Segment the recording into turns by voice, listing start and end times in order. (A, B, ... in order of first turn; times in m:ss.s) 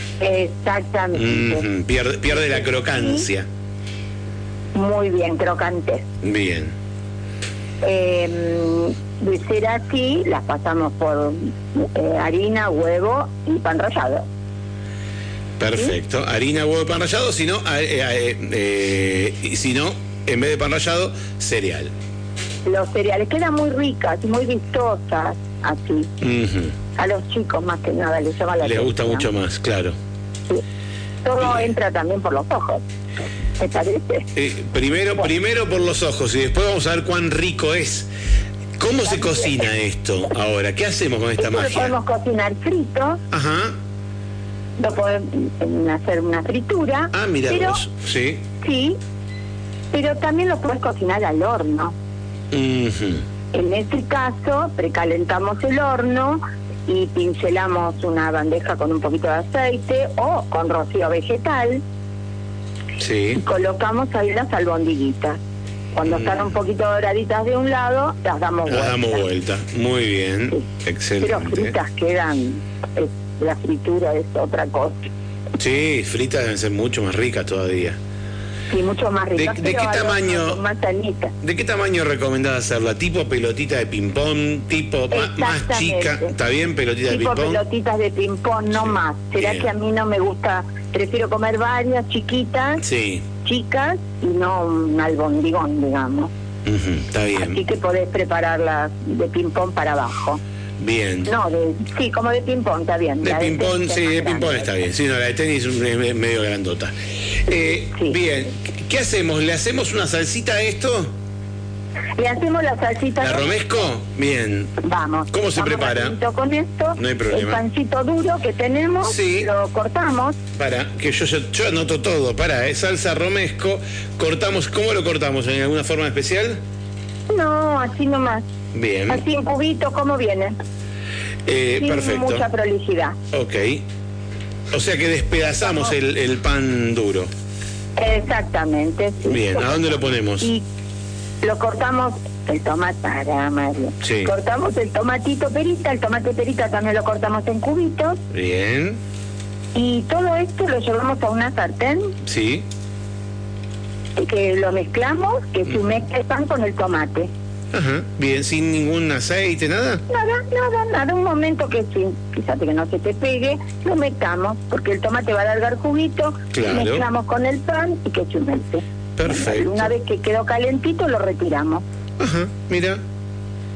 0:00.2-0:01.6 A
0:01.1-0:03.5 B
0:02.3-0:03.3 A
0:04.7-0:06.1 A
0:06.2-0:06.7 B
0:07.8-0:14.2 A
0:15.6-0:21.9 B
0:22.6-0:26.1 A
0:26.2-0:26.8 B
0:27.0-0:29.3 A
0:28.6-0:29.9 B
0:31.2-0:32.8 A
0:33.6-0:34.3 A
0:34.3-0:38.1 B
0:38.8-0:41.9 B
0:39.0-0:39.6 A
0:41.4-0:43.2 A
0:43.3-0:43.8 B
0:44.8-0:47.8 A
0:47.1-0:48.4 B
0:48.6-0:49.0 A
0:49.9-0:51.9 A
0:52.5-0:53.2 B
0:53.5-1:01.8 A
1:03.0-1:03.4 B
1:03.4-1:05.4 A
1:05.9-1:09.2 A
1:06.0-1:06.5 B
1:08.7-1:11.7 B
1:11.2-1:15.1 A
1:15.6-1:18.0 B
1:18.7-1:21.3 A
1:19.4-1:20.6 B
1:21.4-1:27.6 B
1:25.1-1:26.3 A
1:27.1-1:32.8 A
1:28.8-1:29.7 B
1:32.8-1:33.3 B
1:33.4-1:36.3 A
1:36.6-1:37.6 B
1:37.4-1:40.4 A
1:40.8-1:41.3 B
1:41.2-1:44.7 A
1:43.2-1:51.1 B
1:52.2-1:53.5 A
1:53.2-1:54.8 B
1:54.8-2:00.4 A
1:55.3-1:56.2 B
1:57.0-1:57.6 B
1:59.0-1:59.5 B
2:00.5-2:06.6 B
2:07.3-2:08.5 A
2:08.7-2:09.2 B
2:09.1-2:10.5 A
2:11.4-2:12.4 B
2:11.8-2:13.2 A
2:13.3-2:13.8 B
2:14.7-2:17.3 B
2:18.0-2:20.6 A
2:19.3-2:20.5 B
2:21.4-2:28.2 A
2:24.0-2:24.3 B
2:28.3-2:29.0 B
2:29.7-2:32.2 A
2:32.2-2:32.6 B
2:34.2-2:37.3 A
2:37.7-2:40.0 B
2:40.1-2:51.8 A
2:46.5-2:47.0 B
2:49.2-2:49.9 B
2:52.2-2:53.0 B